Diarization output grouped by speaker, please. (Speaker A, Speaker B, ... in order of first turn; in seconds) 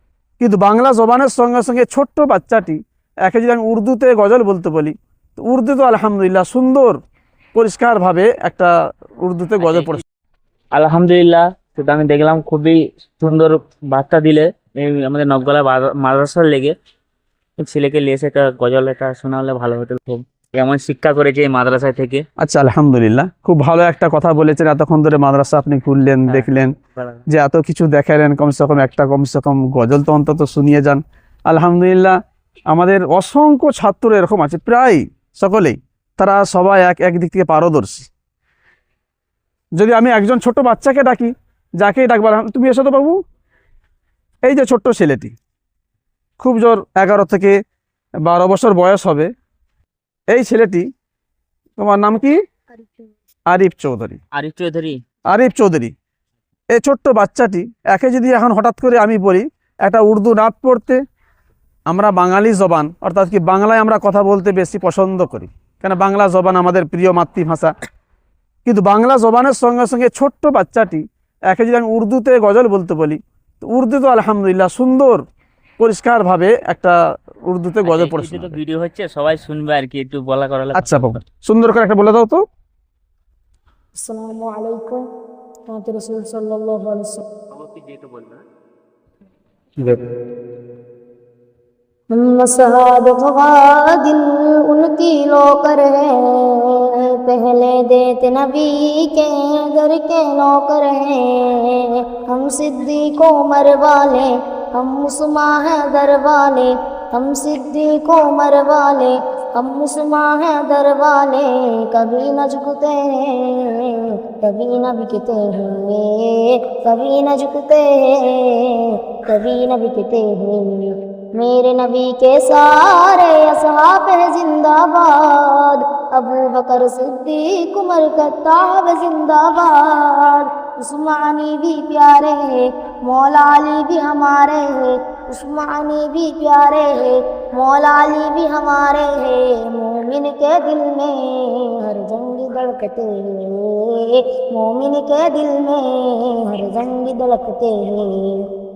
Speaker A: 0.4-7.0, 7.5-8.7, 9.2-10.0, 22.4-26.7, 27.3-32.2, 32.7-38.1, 39.8-43.2, 44.5-45.3, 46.4-47.6, 48.2-49.3, 50.3-50.9, 51.8-52.4, 53.5-54.2, 55.3-55.9, 56.8-61.0, 61.9-67.7, 68.6-75.2, 75.8-78.6, 80.7-82.4
Speaker B: 9.6-10.0, 10.7-16.7, 17.6-22.2, 26.3-27.2, 54.4-55.0, 77.8-81.0, 87.5-88.4
Speaker C: 84.0-85.0, 85.7-87.2, 92.1-148.4